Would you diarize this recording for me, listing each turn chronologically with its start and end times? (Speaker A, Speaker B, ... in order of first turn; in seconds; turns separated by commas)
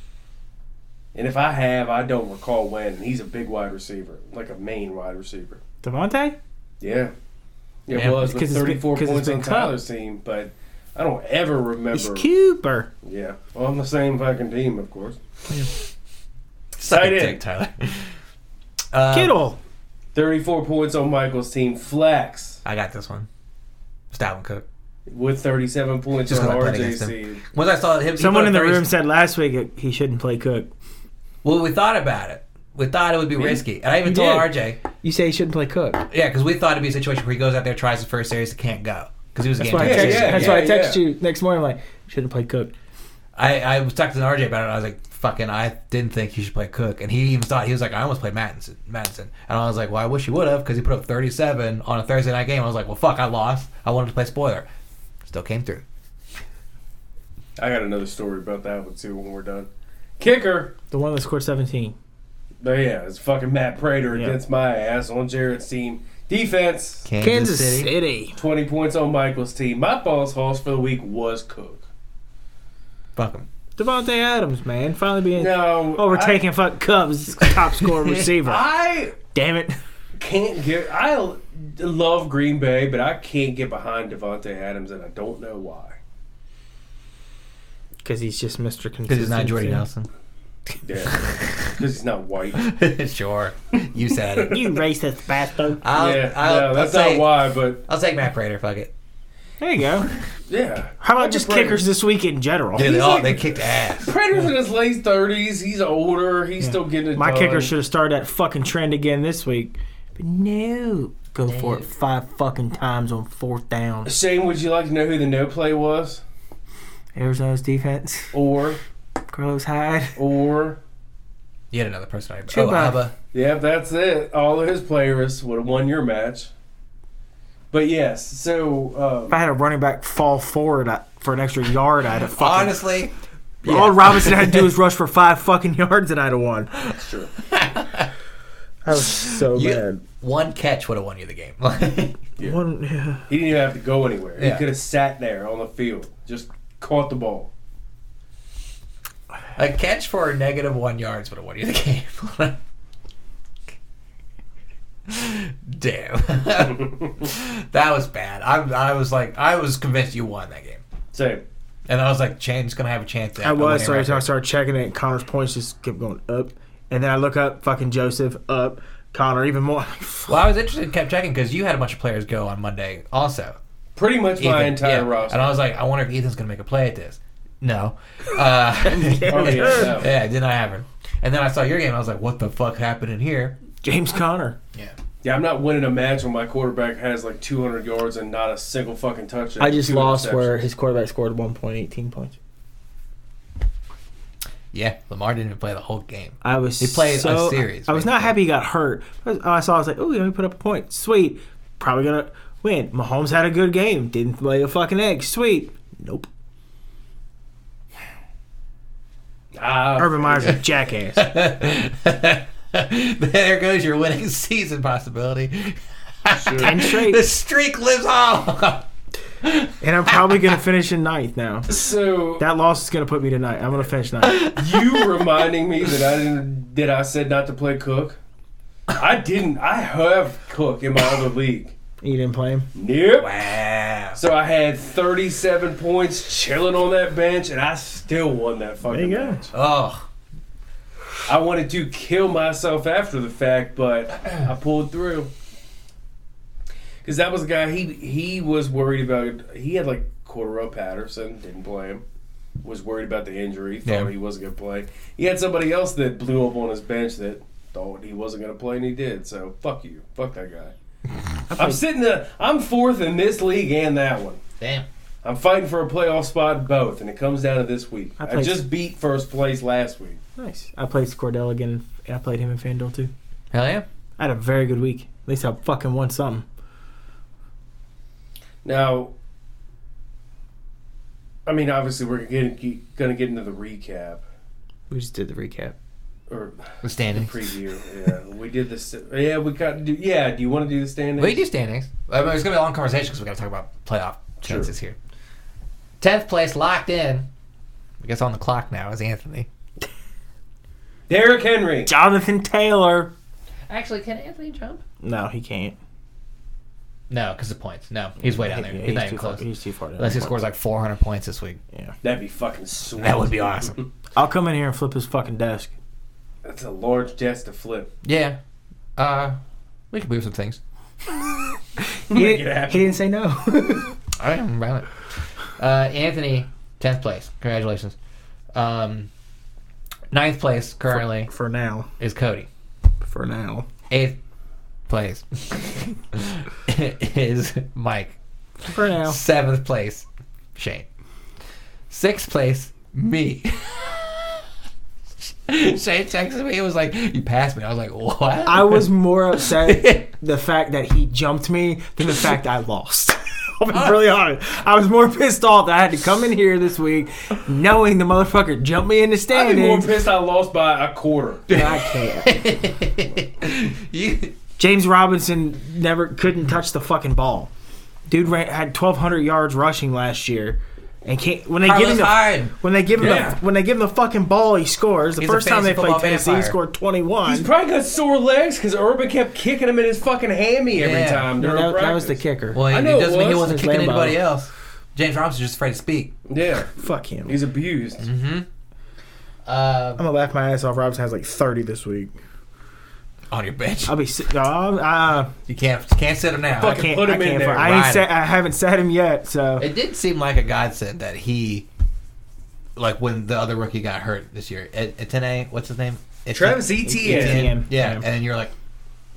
Speaker A: 1.1-5.6, Speaker B: 5.8-6.4, Speaker A: 6.8-7.1, Speaker A: 7.9-12.3, Speaker C: 7.9-8.3, Speaker B: 8.1-9.8, Speaker B: 11.9-12.9, Speaker A: 13.0-15.2, Speaker C: 16.8-18.1, Speaker A: 16.8-17.4, Speaker C: 18.9-19.4, Speaker B: 19.1-19.6, Speaker A: 20.1-22.6, Speaker C: 22.6-23.3, Speaker C: 24.1-24.6, Speaker A: 25.1-27.4, Speaker C: 26.3-28.9, Speaker B: 28.2-30.7, Speaker C: 31.4-34.8, Speaker B: 34.0-36.0, Speaker C: 36.1-40.6, Speaker B: 39.6-42.7, Speaker A: 39.8-41.0, Speaker C: 43.4-54.7, Speaker C: 55.2-55.8, Speaker A: 57.6-60.7, Speaker B: 60.9-62.0, Speaker A: 62.6-67.0, Speaker B: 64.1-64.4, Speaker C: 67.0-67.9, Speaker B: 67.2-68.4, Speaker A: 68.3-71.8, Speaker C: 73.2-73.5, Speaker B: 73.8-78.7, Speaker A: 75.3-76.4, Speaker A: 78.4-79.2, Speaker B: 79.3-79.8, Speaker A: 80.2-86.0, Speaker B: 88.0-89.8, Speaker C: 89.1-90.1, Speaker A: 90.8-92.7, Speaker C: 91.1-91.7, Speaker C: 92.6-94.6, Speaker B: 94.5-95.8, Speaker C: 95.8-97.3, Speaker A: 95.9-97.8, Speaker C: 97.8-98.9, Speaker B: 99.6-100.1, Speaker A: 100.5-101.9, Speaker B: 101.0-102.9, Speaker C: 102.8-104.1, Speaker A: 102.8-107.7, Speaker B: 106.6-114.1, Speaker C: 111.5-111.8, Speaker A: 114.0-116.2, Speaker B: 117.1-118.3, Speaker A: 118.3-118.8, Speaker B: 119.3-120.2, Speaker A: 120.2-120.8, Speaker C: 121.7-123.1, Speaker B: 122.5-123.0, Speaker A: 123.3-126.5, Speaker A: 127.7-129.3, Speaker B: 129.3-132.9, Speaker C: 132.3-133.1, Speaker C: 133.6-134.7, Speaker B: 133.6-136.7, Speaker A: 136.9-137.3, Speaker C: 137.4-138.1, Speaker B: 138.8-140.0, Speaker C: 139.1-142.2, Speaker B: 142.4-143.2, Speaker A: 143.3-147.5, Speaker C: 144.4-144.7, Speaker C: 149.6-152.6, Speaker C: 155.1-160.8, Speaker A: 161.1-161.4, Speaker C: 161.9-164.3, Speaker B: 163.4-170.4, Speaker C: 170.3-173.6, Speaker A: 173.9-175.5, Speaker C: 174.4-183.6, Speaker B: 178.8-180.0, Speaker A: 179.3-180.1, Speaker B: 183.8-184.6, Speaker A: 185.2-190.6, Speaker B: 189.6-192.3, Speaker C: 194.7-198.3, Speaker B: 196.4-206.3, Speaker A: 209.6-210.6, Speaker B: 210.0-211.3, Speaker C: 211.1-218.9, Speaker A: 216.3-216.8, Speaker B: 216.6-217.2, Speaker C: 219.4-220.3, Speaker B: 219.8-221.7, Speaker A: 221.7-222.4, Speaker B: 222.4-224.5, Speaker C: 224.3-225.0, Speaker A: 224.4-228.2, Speaker A: 228.9-231.7, Speaker B: 232.0-232.7, Speaker A: 232.8-233.4, Speaker C: 233.2-234.2, Speaker A: 234.2-239.5, Speaker B: 238.9-239.4, Speaker C: 239.5-240.1, Speaker A: 241.2-245.3, Speaker A: 247.0-252.0, Speaker A: 252.6-260.7, Speaker C: 253.8-254.1, Speaker B: 261.5-261.8, Speaker A: 261.5-264.4, Speaker C: 264.6-264.9, Speaker A: 265.2-270.2, Speaker B: 268.2-268.6, Speaker B: 270.4-273.1, Speaker C: 273.5-273.9, Speaker B: 274.2-276.4, Speaker A: 278.6-279.1, Speaker A: 281.4-284.2, Speaker B: 284.9-285.7, Speaker A: 286.3-291.4, Speaker C: 286.8-287.5, Speaker C: 291.2-294.9, Speaker A: 294.4-294.7, Speaker C: 296.0-297.3, Speaker C: 298.0-299.5, Speaker A: 301.1-301.9, Speaker B: 301.9-303.1, Speaker C: 303.7-304.8, Speaker B: 305.0-305.8, Speaker C: 307.1-309.4, Speaker B: 308.2-310.4, Speaker C: 310.0-311.6, Speaker A: 312.0-313.9, Speaker C: 313.0-313.8, Speaker B: 314.1-315.7, Speaker A: 316.4-317.9, Speaker C: 318.0-318.4, Speaker C: 319.0-319.4, Speaker C: 319.9-320.6, Speaker A: 322.1-323.0, Speaker B: 322.1-323.9, Speaker C: 324.2-325.0, Speaker C: 325.6-327.9, Speaker C: 328.5-329.1, Speaker C: 330.1-331.3, Speaker B: 330.9-331.9, Speaker C: 332.0-332.5, Speaker B: 333.0-333.7, Speaker C: 333.9-334.2, Speaker C: 334.9-338.1, Speaker B: 338.7-339.2, Speaker C: 338.7-340.9, Speaker C: 341.9-344.4, Speaker C: 345.2-350.1, Speaker B: 348.4-359.9, Speaker A: 359.3-361.5, Speaker B: 361.5-362.5, Speaker C: 361.5-364.3, Speaker B: 364.6-367.5, Speaker B: 368.1-377.5, Speaker C: 371.6-372.5, Speaker A: 373.0-373.4, Speaker C: 375.2-376.6, Speaker A: 377.2-383.5, Speaker C: 380.7-381.3, Speaker B: 381.4-382.6, Speaker C: 382.5-386.1, Speaker B: 383.3-384.2, Speaker A: 386.3-388.0, Speaker B: 386.7-387.4, Speaker C: 388.0-388.5, Speaker C: 389.4-390.0, Speaker B: 390.0-392.1, Speaker C: 393.3-394.0, Speaker B: 393.9-395.3, Speaker C: 395.5-396.9, Speaker A: 396.6-397.8, Speaker B: 396.6-399.7, Speaker C: 397.6-398.1, Speaker C: 399.6-401.7, Speaker C: 402.8-408.5, Speaker A: 406.3-407.5, Speaker B: 406.9-408.1